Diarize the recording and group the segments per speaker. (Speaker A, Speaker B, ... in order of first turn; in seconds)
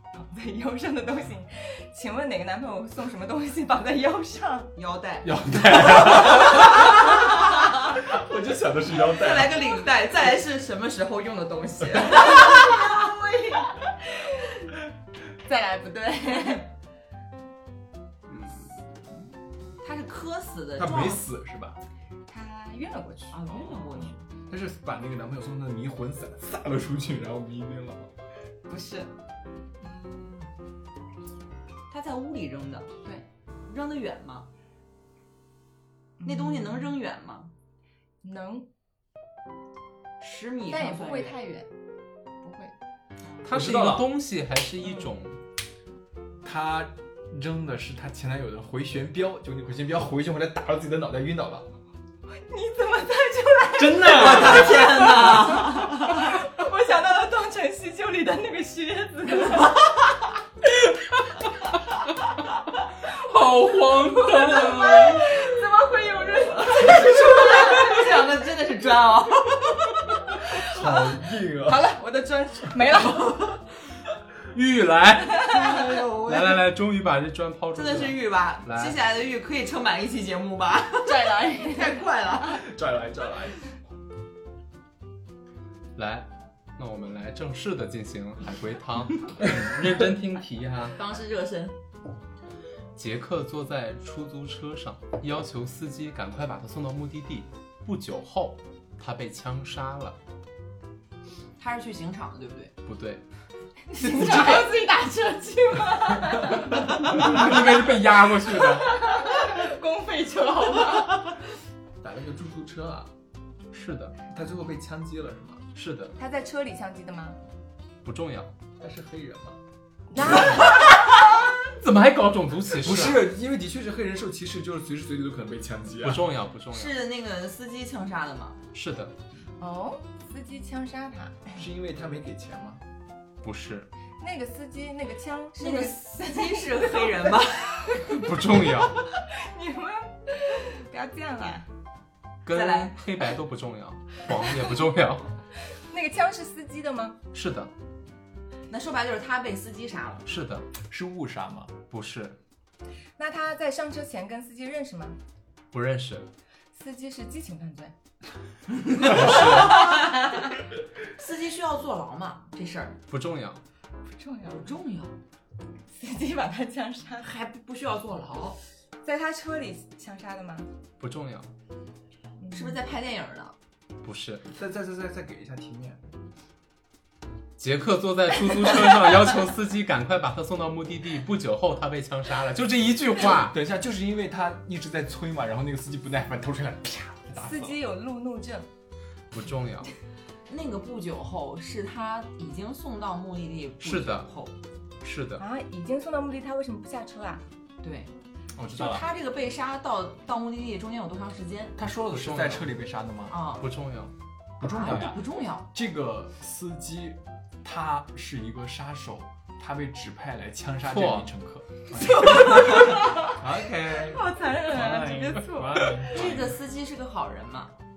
Speaker A: 0.1-4.7, 12.2-14.5, 15.4-16.7, 22.3-24.1, 28.7-29.1, 36.2-37.0, 38.2-38.7, 40.7-41.7, 42.4-42.7, 52.3-59.8, 63.0-68.2, 71.6-73.5, 75.5-75.8, 81.0-82.0, 103.9-107.4, 108.6-111.3, 116.2-117.4, 120.1-120.9, 129.6-131.6, 134.2-138.2, 139.2-141.7, 145.7-147.2, 153.2-155.2, 156.7-157.9, 164.1-164.7, 165.9-167.3, 169.0-170.7, 172.4-172.8, 187.4-188.7, 195.4-197.4, 211.9-216.2
Speaker B: 4.7-7.8, 8.9-13.1, 19.8-21.2, 23.3-24.3, 31.9-32.9, 33.7-34.5, 36.2-37.5, 40.2-41.4, 54.0-56.4, 66.6-70.4, 75.5-76.6, 77.7-82.6, 90.9-91.8, 101.6-102.7, 126.7-128.6, 135.6-138.0, 142.5-143.0, 148.7-150.3, 158.8-163.0, 164.4-165.2, 167.2-168.6, 172.5-173.5, 190.5-194.5, 197.8-198.1, 198.6-201.8, 203.3-203.7, 204.6-205.7, 212.3-212.9, 216.0-217.7
Speaker C: 5.2-7.3, 7.8-9.9, 20.8-21.8, 24.5-28.1, 43.5-44.1, 46.4-51.7, 53.8-55.4, 70.5-71.9, 82.5-83.6, 112.0-113.1, 114.3-115.6, 118.8-119.6, 122.7-126.2, 131.6-132.8, 150.8-151.7, 174.5-176.0, 183.2-187.8, 198.6-199.1, 201.8-203.4, 204.6-212.5, 213.4-216.6
Speaker D: 18.3-18.7, 43.4-45.4, 63.0-65.3, 74.4-75.7, 76.2-79.0, 86.0-91.0, 92.9-100.2, 102.8-103.2, 106.5-108.9, 113.7-114.2, 115.7-116.1, 118.0-118.5, 120.2-123.2, 126.0-127.0, 128.7-129.1, 133.4-133.9, 138.0-139.0, 142.4-145.3, 147.3-147.7, 150.2-150.7, 151.9-152.4, 155.7-156.3, 159.0-160.0, 163.1-163.6, 171.0-171.5, 174.0-174.5, 177.6-183.6, 189.3-189.9, 193.8-194.3, 195.0-195.4, 202.0-202.7, 203.5-204.1, 210.8-211.3